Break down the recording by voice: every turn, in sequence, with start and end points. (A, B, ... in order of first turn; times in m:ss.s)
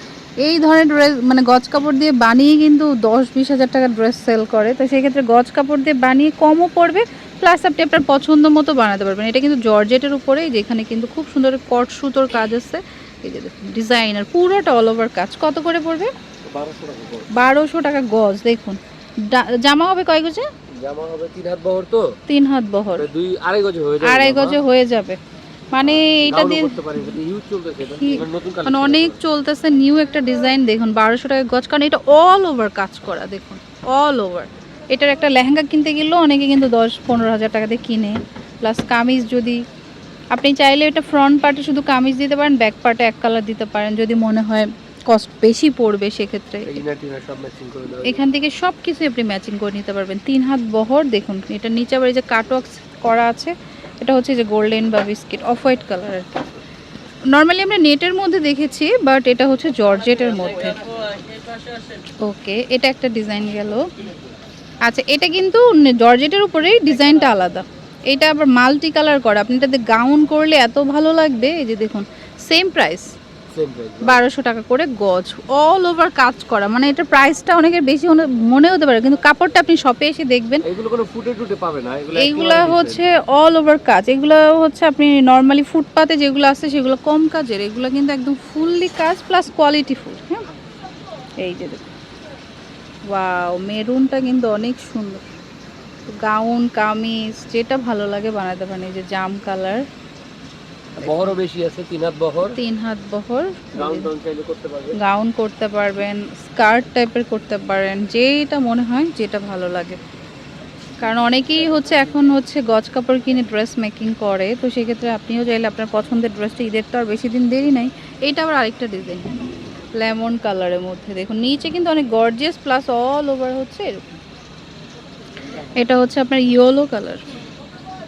0:00.4-0:16.1 A
0:16.5-0:17.3 B
0:17.3-0:20.4 A
0:20.8-0:22.2 B
0:22.3-0:23.1 A
0:23.0-0:24.6 B
0:24.0-0:25.2 A
0:25.7-0:27.2 A
0:25.8-0:29.2 B
0:27.8-0:39.6 A
0:40.3-0:46.8 A
0:46.6-0:48.2 B
0:48.0-0:56.4 A
0:57.3-1:00.8 A
1:02.2-1:03.8 A
1:04.8-1:13.0 A
1:13.5-1:14.2 B
1:14.0-1:20.6 A
1:20.6-1:23.0 B
1:22.2-1:30.4 A
1:31.4-1:31.9 A
1:33.1-1:35.2 A
1:36.2-1:39.8 A
1:41.0-1:42.6 B
1:42.5-1:44.1 A
1:43.8-1:45.0 B
1:45.0-1:50.0 A
1:51.0-1:59.4 A
2:00.0-2:04.2 A
2:05.8-2:07.2 A